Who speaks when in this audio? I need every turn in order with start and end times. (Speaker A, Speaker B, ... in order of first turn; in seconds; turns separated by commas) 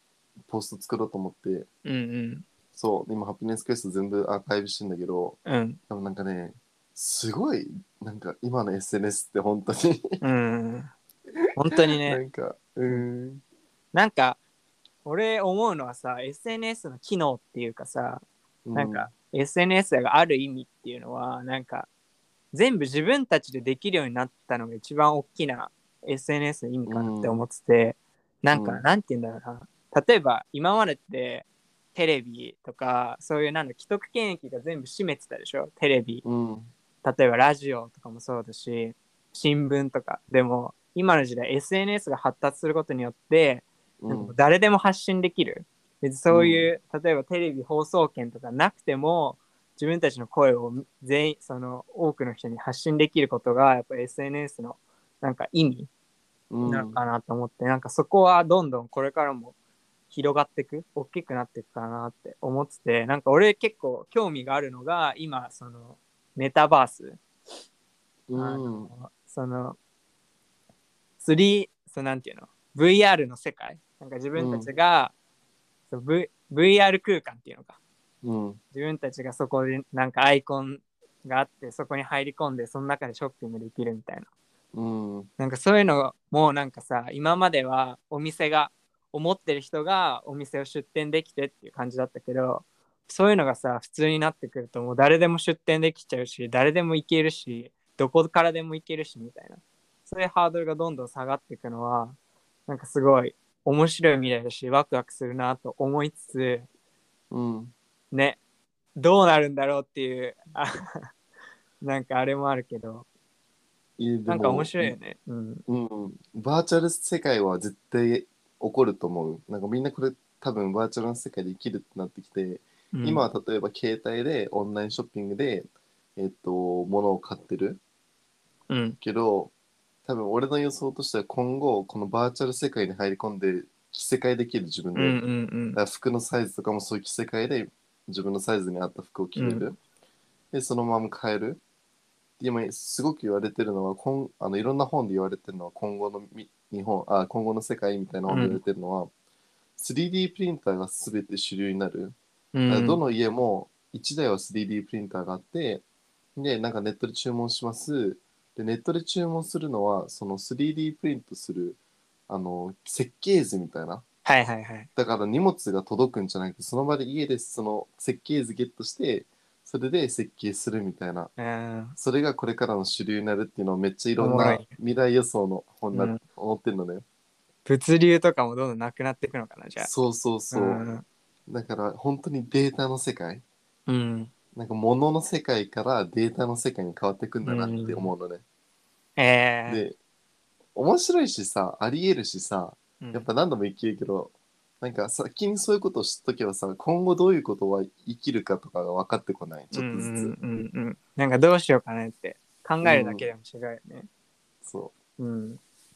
Speaker A: 0.5-1.7, Speaker B: 1.8-2.4, Speaker A: 2.7-5.4, Speaker B: 5.4-5.8, Speaker A: 5.9-10.2, Speaker B: 10.2-10.9, Speaker B: 11.6-12.2, Speaker A: 12.0-13.4, Speaker B: 13.9-14.4, Speaker B: 15.0-18.2, Speaker A: 18.7-19.1, Speaker B: 18.7-21.9, Speaker B: 22.5-36.2, Speaker A: 26.9-27.4, Speaker A: 28.5-28.8, Speaker A: 36.2-36.7, Speaker B: 37.0-55.9, Speaker A: 44.0-44.3, Speaker A: 46.3-46.7, Speaker A: 56.5-57.0, Speaker B: 56.6-59.5, Speaker B: 60.1-67.2, Speaker A: 68.3-68.9, Speaker B: 68.3-69.8, Speaker B: 71.2-75.1, Speaker A: 74.3-74.7, Speaker B: 75.9-77.8, Speaker A: 78.2-78.6, Speaker B: 78.7-84.3, Speaker A: 84.7-85.3, Speaker B: 85.4-106.7, Speaker A: 107.3-107.7, Speaker B: 108.1-108.4, Speaker B: 109.0-111.0, Speaker B: 111.8-113.1, Speaker A: 114.0-115.0, Speaker B: 114.3-115.6, Speaker A: 115.7-127.8, Speaker B: 122.9-123.2, Speaker B: 128.7-129.0, Speaker A: 129.0-129.5, Speaker A: 130.1-135.2, Speaker B: 134.9-135.8, Speaker A: 135.7-139.8, Speaker B: 139.3-139.7, Speaker A: 140.5-141.6, Speaker A: 142.4-149.1, Speaker B: 148.3-148.6, Speaker A: 149.8-152.2, Speaker B: 152.5-153.0, Speaker A: 152.7-155.8, Speaker A: 156.3-164.0, Speaker B: 164.2-164.9, Speaker A: 164.9-171.3, Speaker B: 171.4-171.9, Speaker A: 172.0-177.0, Speaker B: 174.2-174.7, Speaker B: 175.9-176.2, Speaker B: 177.7-179.9, Speaker A: 179.8-180.8, Speaker B: 180.5-181.0, Speaker A: 181.5-183.4, Speaker B: 183.9-184.3, Speaker A: 184.5-188.4, Speaker B: 187.4-188.1, Speaker B: 189.2-189.8, Speaker A: 189.7-190.0, Speaker A: 190.7-200.3, Speaker B: 193.0-193.2, Speaker B: 199.7-204.1, Speaker A: 202.8-203.3, Speaker A: 204.6-204.9, Speaker B: 205.2-205.6